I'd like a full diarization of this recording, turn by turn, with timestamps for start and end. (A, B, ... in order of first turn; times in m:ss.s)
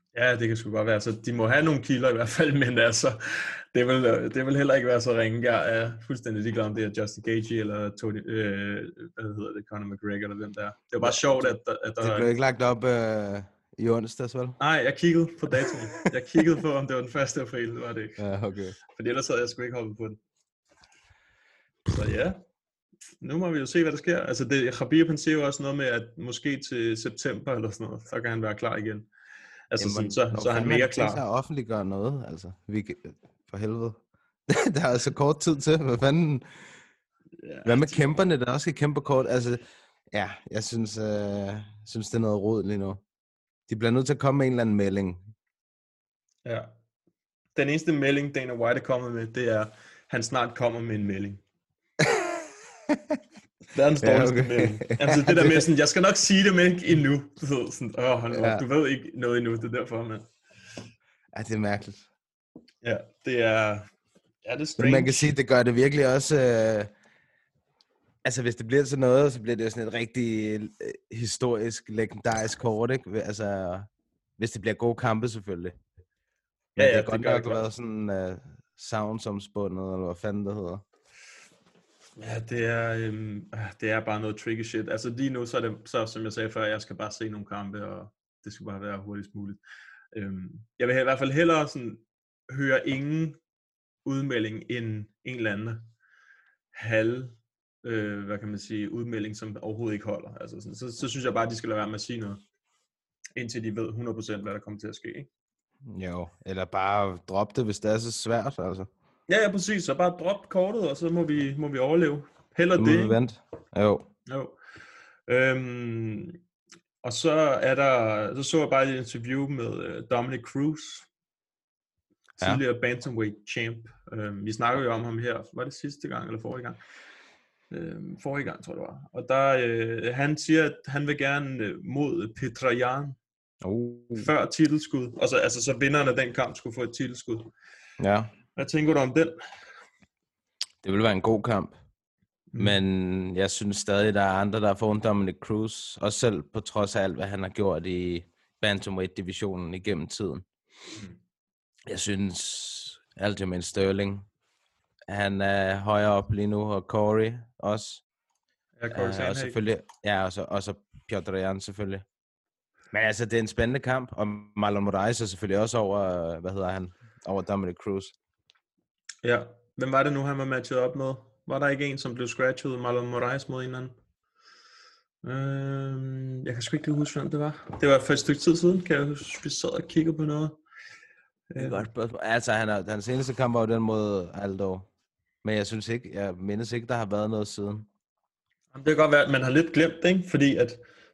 0:00.1-0:12.3 A
0:11.0-0:14.6 B
0:14.6-0:18.2 A
0:18.2-0:18.8 B
0:18.9-0:20.2 A
0:21.9-0:22.4 A
0:23.2-0:29.1 A
0:29.7-0:31.2 A
0:29.8-0:36.5 B
0:37.4-0:38.0 A
0:37.6-0:43.0 B
0:43.7-0:45.3 B
0:46.4-0:46.7 A
0:47.6-0:51.4 A
0:53.7-1:00.3 A
0:54.0-0:55.6 B
0:58.3-0:58.6 B
1:01.3-1:02.1 B
1:02.8-1:03.9 A
1:04.4-1:05.3 A
1:04.8-1:06.9 B
1:08.2-1:15.8 B
1:16.8-1:20.8 B
1:16.8-1:17.6 A
1:22.2-1:29.6 A
1:30.1-1:33.4 A
1:34.0-1:35.9 A
1:36.7-1:42.4 A
1:43.4-1:45.3 A
1:45.8-1:48.9 B
1:49.3-1:53.2 A
1:52.8-1:54.1 B
1:54.3-1:54.6 A
1:55.3-1:56.4 A
1:57.0-2:01.1 A
2:02.4-2:06.8 A
2:07.7-2:13.2 A
2:13.6-2:14.3 B
2:14.2-2:17.5 A
2:18.0-2:18.3 B
2:18.6-2:19.4 A
2:20.8-2:21.8 B
2:22.5-2:22.8 A
2:22.6-2:30.5 B
2:31.9-2:34.3 B
2:35.1-2:38.0 B
2:38.8-2:39.6 A
2:38.9-2:42.0 B
2:42.9-2:48.1 B
2:49.2-2:54.0 A
2:55.2-3:00.6 A
3:01.5-3:01.8 A
3:01.6-3:04.9 B
3:05.4-3:07.9 B
3:08.7-3:10.8 A